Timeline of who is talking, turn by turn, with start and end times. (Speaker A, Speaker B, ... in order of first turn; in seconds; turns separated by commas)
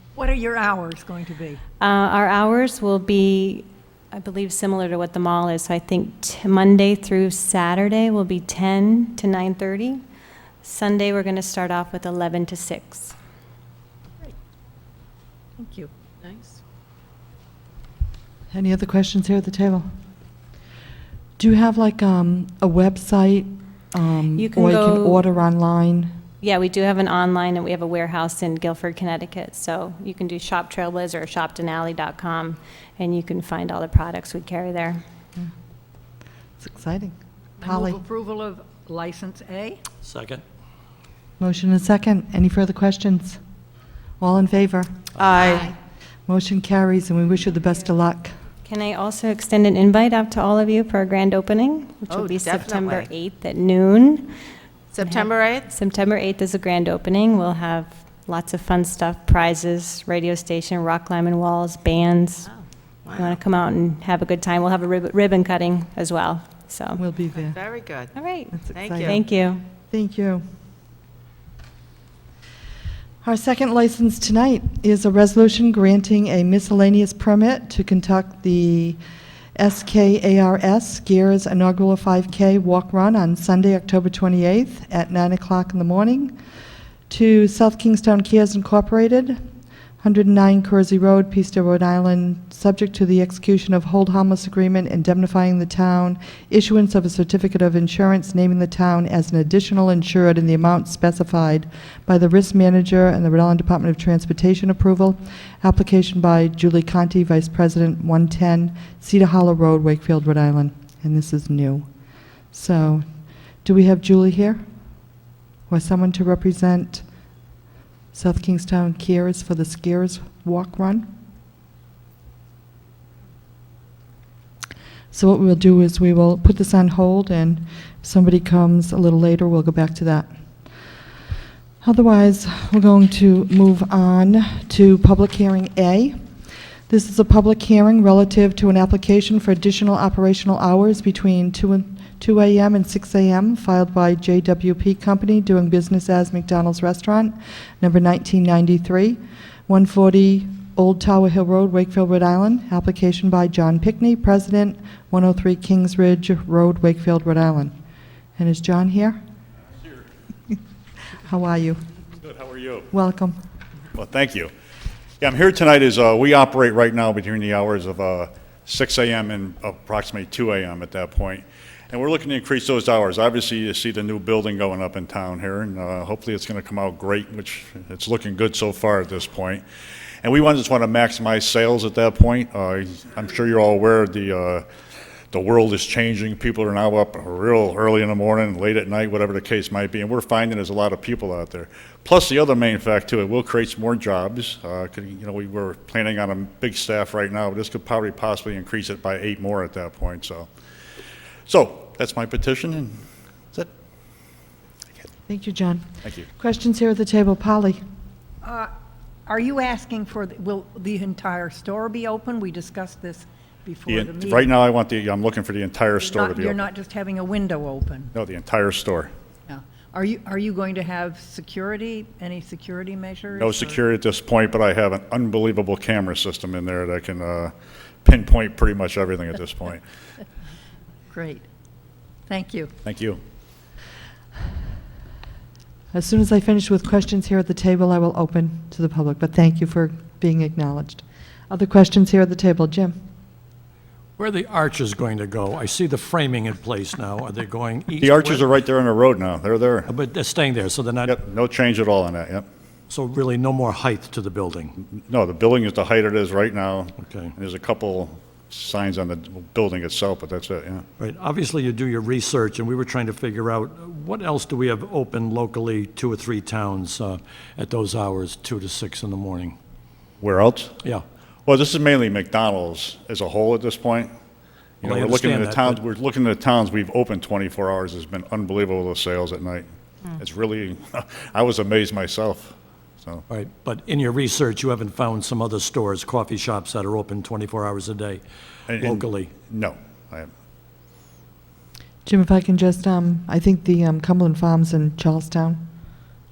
Speaker A: 0.2-1.6, Speaker B: 1.8-10.0, Speaker B: 10.6-13.2, Speaker A: 15.6-15.9, Speaker C: 18.5-19.9, Speaker C: 21.4-26.1, Speaker B: 24.4-25.2, Speaker B: 26.4-35.0, Speaker C: 36.6-38.0, Speaker A: 37.6-39.8, Speaker D: 40.0-40.4, Speaker C: 41.4-43.4, Speaker C: 44.2-45.8, Speaker E: 45.2-45.7, Speaker C: 46.3-48.3, Speaker B: 48.6-54.3, Speaker E: 52.1-53.1, Speaker E: 54.9-55.6, Speaker B: 55.0-62.5, Speaker E: 63.0-63.4, Speaker B: 63.1-67.0, Speaker C: 67.0-67.6, Speaker E: 67.5-68.1, Speaker B: 68.1-69.7, Speaker C: 68.5-69.2, Speaker E: 68.7-69.2, Speaker C: 69.9-70.4, Speaker C: 73.2-79.0, Speaker C: 79.6-86.3, Speaker C: 87.1-89.4, Speaker C: 90.0-111.9, Speaker C: 112.5-113.0, Speaker C: 113.6-114.6, Speaker C: 115.7-117.0, Speaker C: 118.1-121.1, Speaker C: 125.1-130.3, Speaker C: 131.8-136.2, Speaker C: 136.9-157.7, Speaker C: 158.4-159.2, Speaker C: 161.2-161.8, Speaker F: 162.2-162.9, Speaker C: 162.9-163.4, Speaker F: 163.9-164.5, Speaker F: 165.2-179.6, Speaker F: 180.2-184.7, Speaker F: 185.3-200.5, Speaker F: 201.5-203.0, Speaker C: 205.3-207.8, Speaker A: 208.4-208.7, Speaker A: 209.3-214.4, Speaker F: 213.9-216.7, Speaker A: 216.0-218.1, Speaker F: 218.1-219.1, Speaker A: 219.5-223.8, Speaker F: 223.3-227.5, Speaker F: 228.0-229.8, Speaker A: 231.1-231.4, Speaker A: 232.3-232.7, Speaker F: 232.8-233.2, Speaker C: 235.9-243.0, Speaker D: 244.2-248.5, Speaker F: 248.0-249.9, Speaker D: 249.9-251.2, Speaker F: 251.1-252.5, Speaker D: 252.9-254.8, Speaker F: 254.9-260.9, Speaker D: 257.0-257.3, Speaker D: 261.0-269.6, Speaker F: 270.2-270.8, Speaker F: 271.5-274.1, Speaker F: 274.8-283.2, Speaker D: 274.8-275.8, Speaker D: 283.3-289.3, Speaker F: 288.7-290.3, Speaker C: 292.1-295.6